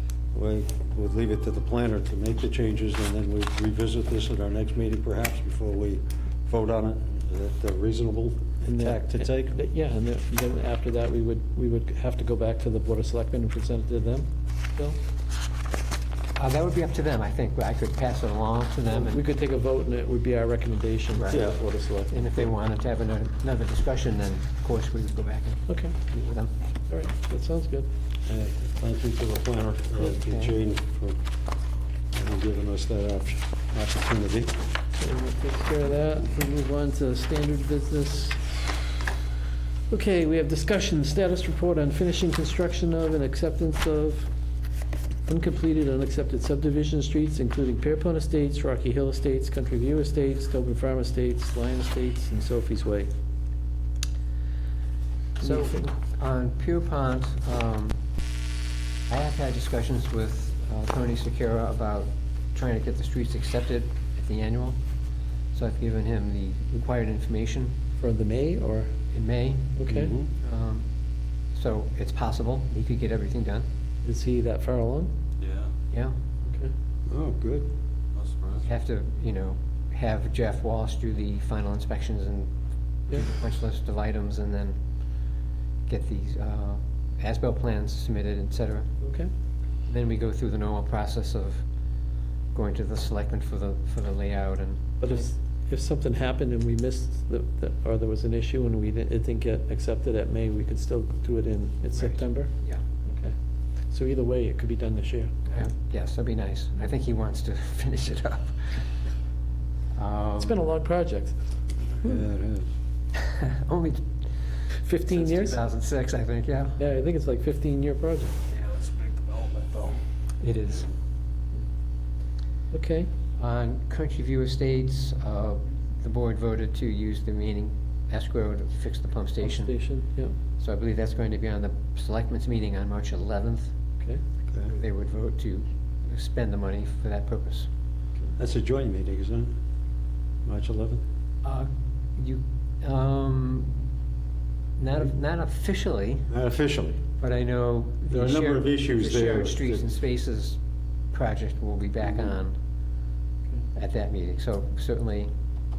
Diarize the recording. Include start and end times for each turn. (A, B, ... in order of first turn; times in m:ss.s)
0:00.3-0:09.6 A
0:08.6-0:15.0 B
0:16.4-0:19.2 C
0:18.9-0:22.6 B
0:21.1-0:21.4 C
0:21.3-0:21.6 A
0:22.1-0:26.5 C
0:25.7-0:26.0 B
0:26.9-0:27.9 B
0:28.2-0:31.2 A
0:30.1-0:30.5 C
0:32.1-0:34.6 A
0:35.0-0:38.7 B
0:39.9-0:44.3 B
0:45.2-0:53.1 B
0:55.4-0:55.9 B
0:55.4-0:58.0 C
0:59.1-1:04.8 C
1:05.5-1:07.8 C
1:08.0-1:08.9 B
1:09.1-1:09.8 C
1:09.8-1:10.1 B
1:09.9-1:10.3 A
1:10.4-1:10.9 C
1:11.5-1:13.7 C
1:14.0-1:15.1 B
1:15.4-1:15.7 D
1:15.9-1:16.2 C
1:16.4-1:16.7 B
1:17.1-1:17.7 A
1:18.1-1:18.6 D
1:18.6-1:22.5 C
1:23.1-1:24.8 C
1:25.9-1:28.9 C
1:29.0-1:29.3 B
1:29.9-1:31.6 C
1:32.5-1:35.2 C
1:35.0-1:42.5 B
1:41.9-1:42.8 C
1:43.0-1:43.3 B
1:43.9-1:45.3 B
1:45.5-1:48.5 C
1:49.9-1:50.6 C
1:50.4-1:51.4 B
1:52.0-1:52.7 A
1:53.2-1:54.0 C
1:54.8-1:55.6 B
1:55.1-1:56.8 C
1:56.8-1:58.4 B
1:58.5-2:00.0 D
2:00.4-2:00.9 C
2:02.7-2:03.1 B
2:03.4-2:09.7 C
2:09.4-2:10.3 B
2:10.6-2:13.7 C
2:14.7-2:17.7 C
2:18.4-2:19.5 A
2:20.4-2:21.0 A
2:21.4-2:23.8 C
2:24.8-2:26.3 C
2:26.3-2:27.0 A
2:27.2-2:30.6 C
2:28.1-2:29.8 A
2:31.1-2:32.5 C
2:33.7-2:35.3 C